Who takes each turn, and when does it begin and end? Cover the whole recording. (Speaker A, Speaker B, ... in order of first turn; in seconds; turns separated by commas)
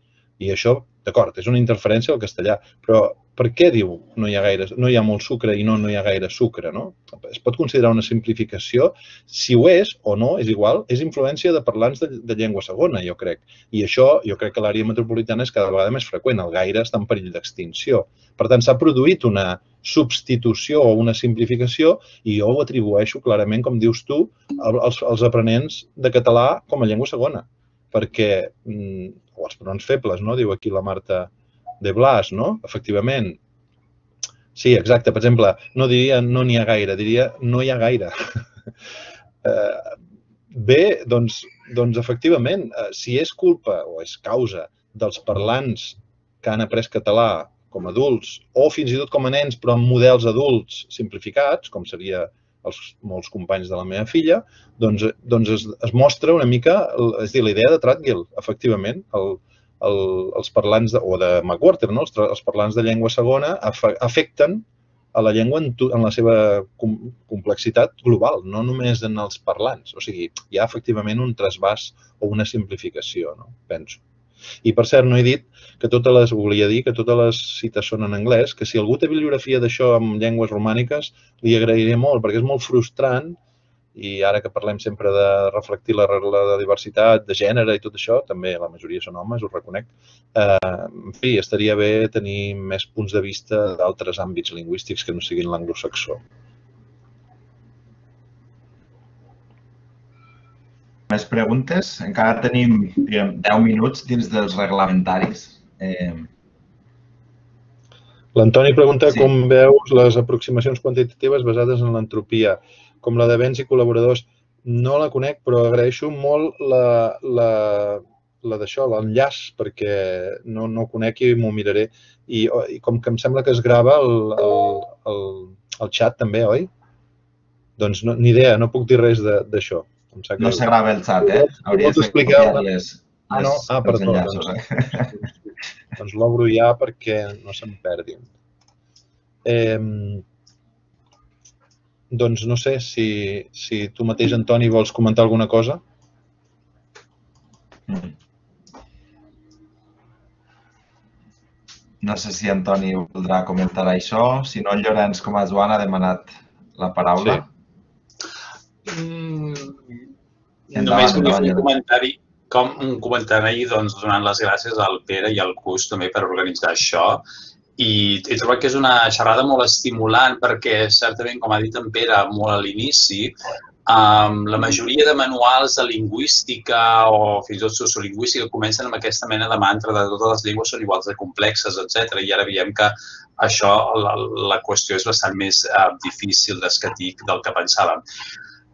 Speaker A: 0.4-31.3, Speaker A: 31.8-33.4, Speaker A: 34.5-38.4, Speaker A: 39.4-40.0, Speaker A: 40.5-74.0, Speaker A: 74.6-83.4, Speaker A: 84.0-96.2, Speaker B: 101.1-106.3, Speaker A: 108.3-126.7, Speaker A: 127.8-132.7, Speaker B: 130.4-135.1, Speaker A: 133.3-135.3, Speaker A: 136.0-138.3, Speaker A: 139.4-140.2, Speaker A: 142.1-145.8, Speaker B: 147.9-148.1, Speaker B: 152.0-157.5, Speaker C: 158.9-159.8, Speaker C: 160.7-167.2, Speaker B: 160.7-161.7, Speaker C: 167.8-173.3, Speaker C: 173.9-188.0